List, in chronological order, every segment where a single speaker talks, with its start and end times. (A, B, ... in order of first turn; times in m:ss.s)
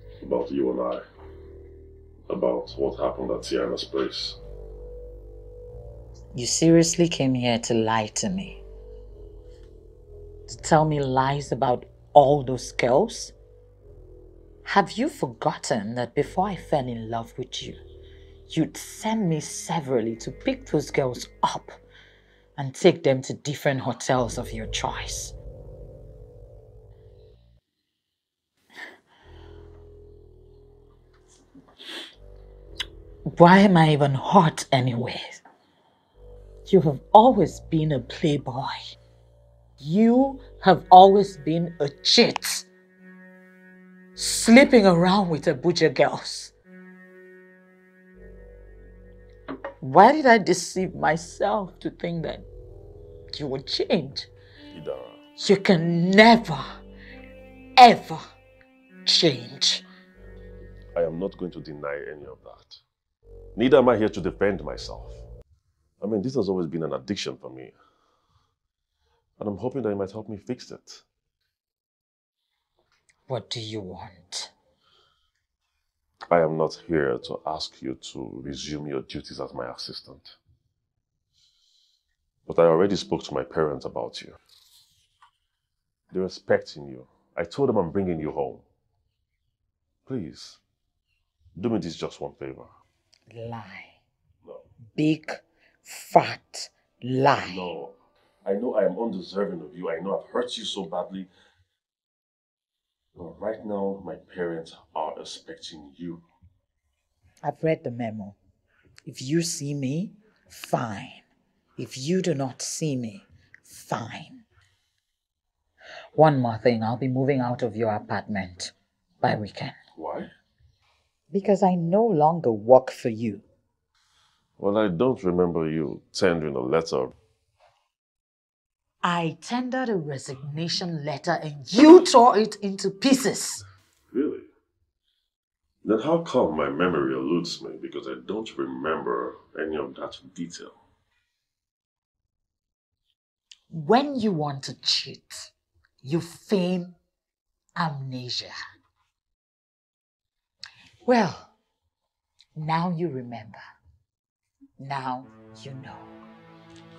0:00.2-0:01.0 A
0:02.3-0:04.4 A
0:06.3-0:08.6 B
0:10.5-0:13.3 B
0:14.6-0:17.8 B
0:18.5-0:21.8 B
0:22.6-0:25.3 B
0:33.3-0:35.4 B
0:36.6-0:38.8 B
0:39.8-0:42.6 B
0:44.2-0:46.5 B
0:49.8-0:52.4 B
0:53.3-0:54.3 B
0:54.7-0:55.2 A
0:55.4-0:56.6 B
0:57.8-0:58.2 B
0:59.0-0:59.8 B
1:00.9-1:02.8 A
1:03.6-1:05.2 A
1:06.0-1:07.8 A
1:09.4-1:11.0 A
1:13.3-1:14.5 B
1:16.3-1:20.4 A
1:22.4-1:24.4 A
1:26.1-1:28.6 A
1:30.0-1:30.6 A
1:31.6-1:32.7 A
1:33.3-1:34.0 B
1:34.9-1:37.7 B
1:37.2-1:41.3 A
1:43.1-1:46.2 A
1:47.4-1:48.4 B
1:49.0-1:51.2 B
1:51.8-1:54.4 B
1:56.1-1:59.8 B
2:00.0-2:00.3 A
2:01.3-2:03.4 B
2:04.6-2:07.1 A
2:09.0-2:13.6 B
2:14.1-2:14.5 A
2:15.8-2:20.8 A
2:23.7-2:25.5 B
2:26.0-2:26.9 B
2:27.8-2:28.5 B
2:31.0-2:31.5 B
2:32.6-2:33.6 B
2:34.8-2:36.1 B